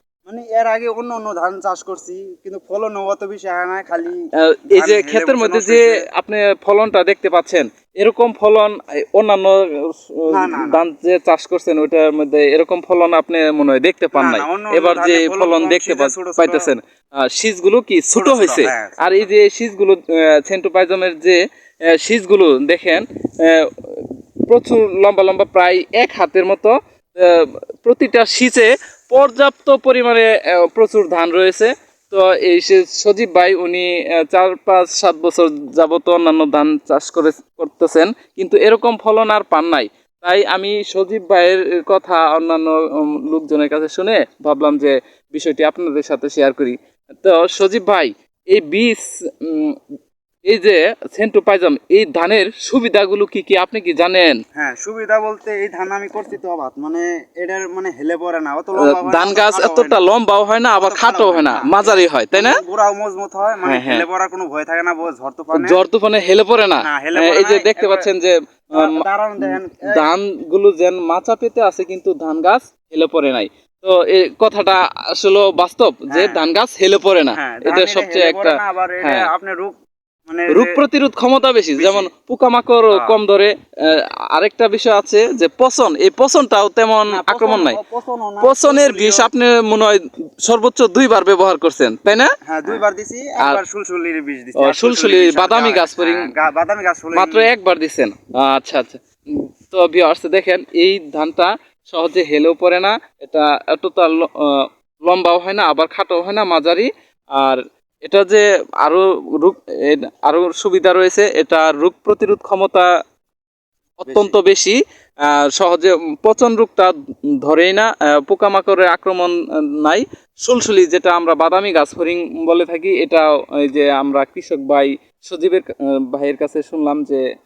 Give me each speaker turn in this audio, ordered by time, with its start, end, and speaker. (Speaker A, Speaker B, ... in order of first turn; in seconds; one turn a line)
Speaker A: 0.2-6.0
Speaker B: 4.4-49.8
Speaker A: 10.3-10.8
Speaker A: 14.1-16.7
Speaker A: 18.1-19.3
Speaker B: 50.5-54.4
Speaker A: 54.5-60.0
Speaker B: 58.8-62.6
Speaker A: 60.7-65.8
Speaker B: 63.6-64.0
Speaker B: 65.5-79.3
Speaker A: 66.8-68.1
Speaker A: 68.7-70.0
Speaker A: 76.1-76.4
Speaker A: 77.3-80.8
Speaker B: 80.5-87.8
Speaker A: 81.8-82.1
Speaker A: 82.9-83.2
Speaker A: 87.1-89.3
Speaker B: 88.4-92.8
Speaker A: 92.5-97.5
Speaker B: 94.6-96.3
Speaker B: 97.1-112.9
Speaker B: 114.0-127.2
Speaker A: 114.1-114.3